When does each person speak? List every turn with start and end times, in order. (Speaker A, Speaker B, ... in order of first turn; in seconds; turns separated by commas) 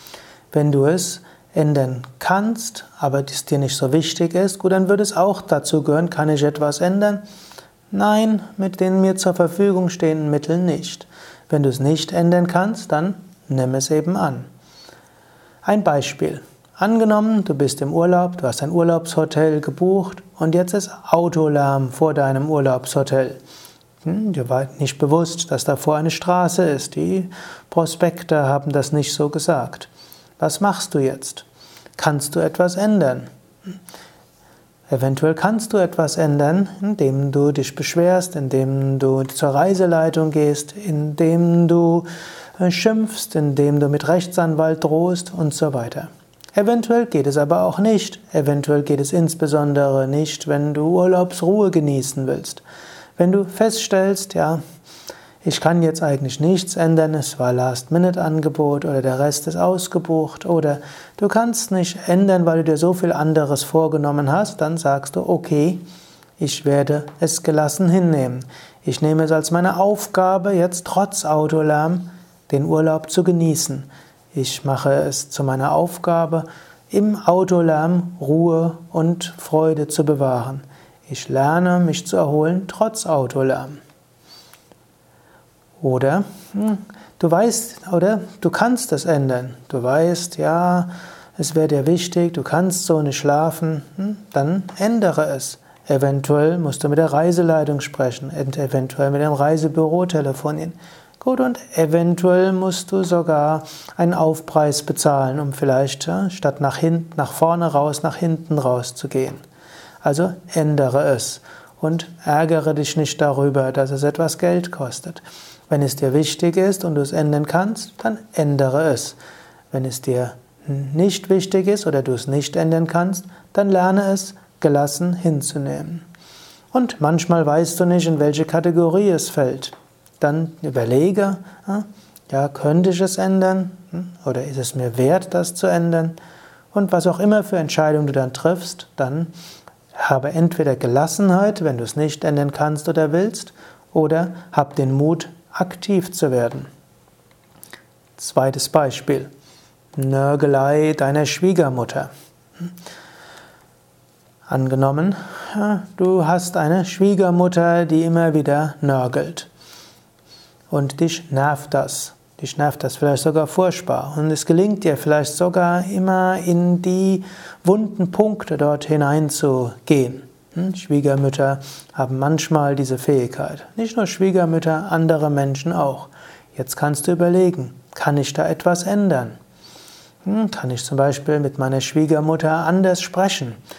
Speaker A: 0.5-7.2, Speaker A: 7.9-14.5, Speaker A: 15.6-23.4, Speaker A: 24.0-31.4, Speaker A: 32.0-33.8, Speaker A: 34.9-52.6, Speaker A: 53.2-54.6, Speaker A: 55.4-65.8, Speaker A: 66.4-83.8, Speaker A: 85.8-109.4, Speaker A: 110.0-119.2, Speaker A: 119.7-126.0, Speaker A: 126.7-136.2, Speaker A: 136.7-139.3, Speaker A: 139.9-146.7, Speaker A: 148.2-149.3, Speaker A: 149.9-152.1, Speaker A: 154.5-159.5, Speaker A: 160.7-179.3, Speaker A: 180.2-183.6